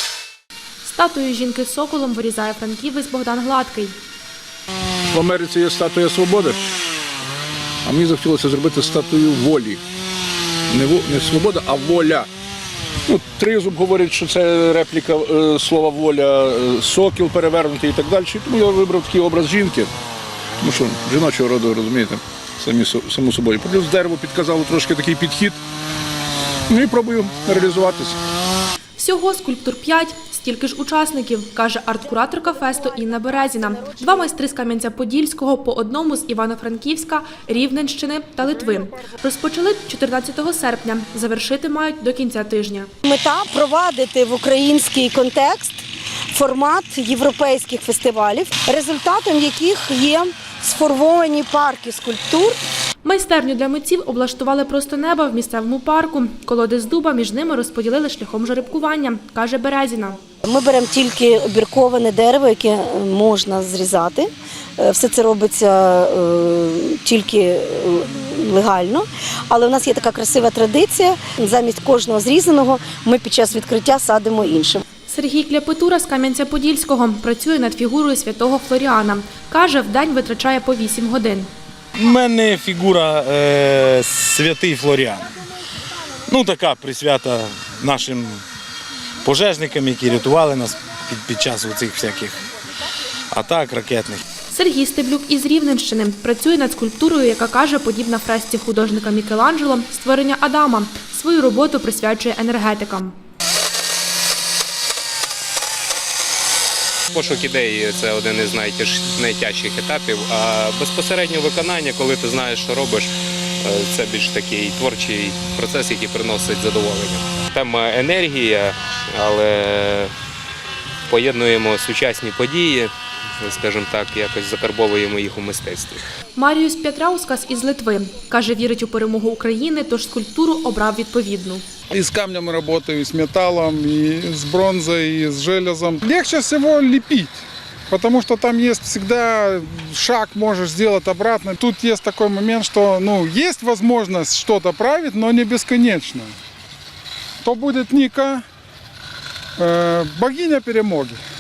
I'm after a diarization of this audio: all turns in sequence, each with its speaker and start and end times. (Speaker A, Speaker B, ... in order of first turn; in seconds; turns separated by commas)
Speaker A: 0.8-4.0, Speaker B: 5.1-6.6, Speaker B: 7.8-9.8, Speaker B: 10.7-12.3, Speaker B: 13.1-19.9, Speaker B: 20.6-25.6, Speaker B: 26.7-28.2, Speaker A: 29.0-42.9, Speaker C: 43.0-52.6, Speaker A: 53.0-60.2, Speaker C: 60.4-74.8, Speaker A: 75.1-81.5, Speaker D: 82.0-85.3, Speaker D: 86.3-88.4, Speaker D: 89.2-92.4, Speaker D: 93.3-94.2, Speaker A: 94.5-103.1, Speaker E: 107.1-113.1, Speaker E: 113.6-120.1, Speaker E: 121.1-126.0, Speaker A: 126.4-131.6, Speaker F: 131.9-146.3, Speaker F: 147.4-148.4, Speaker F: 149.6-151.2